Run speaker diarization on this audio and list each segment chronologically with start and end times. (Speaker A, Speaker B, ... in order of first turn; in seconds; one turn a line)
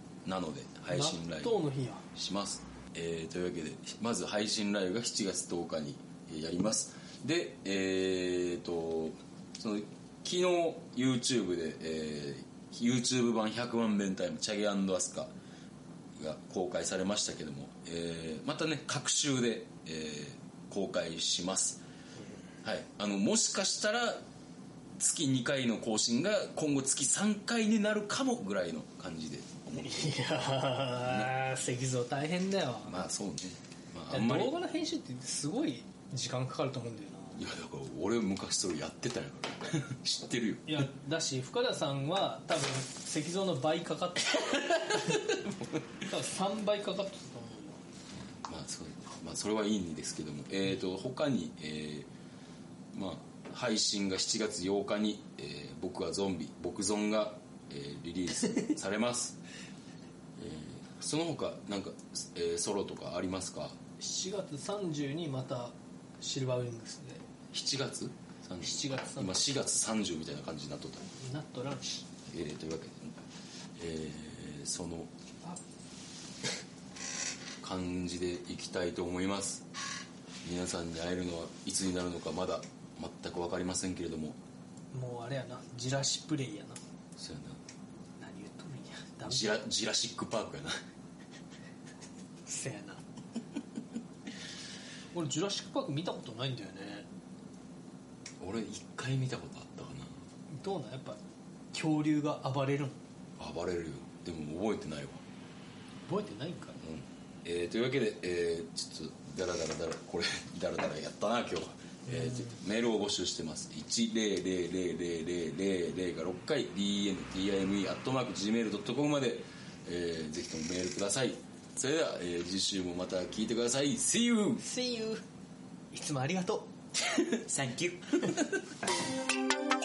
Speaker A: 0.2-1.6
Speaker B: 0.9-2.0
Speaker A: 2.1-15.3
Speaker A: 16.1-21.8
Speaker A: 22.6-24.2
Speaker A: 25.0-30.4
Speaker B: 29.8-33.0
Speaker A: 31.0-31.3
Speaker A: 32.9-34.5
Speaker B: 34.1-37.4
Speaker A: 37.4-40.9
Speaker B: 40.7-45.3
Speaker A: 45.3-45.7
Speaker B: 46.1-47.8
Speaker A: 48.4-52.1
Speaker A: 52.9-59.4
Speaker A: 60.4-63.8
Speaker B: 64.0-67.2
Speaker A: 67.5-71.0
Speaker B: 68.6-69.4
Speaker B: 71.2-72.0
Speaker A: 72.2-75.1
Speaker A: 77.6-79.6
Speaker A: 80.4-84.4
Speaker B: 84.9-86.8
Speaker A: 87.2-87.6
Speaker B: 88.2-89.6
Speaker A: 89.2-90.8
Speaker B: 92.5-93.0
Speaker B: 95.1-97.1
Speaker A: 98.4-100.2
Speaker B: 100.5-101.2
Speaker B: 101.7-103.0
Speaker A: 103.4-105.2
Speaker B: 106.1-106.8
Speaker A: 106.8-124.6
Speaker B: 112.1-112.5
Speaker B: 124.6-125.2
Speaker B: 125.9-126.7
Speaker A: 127.1-128.5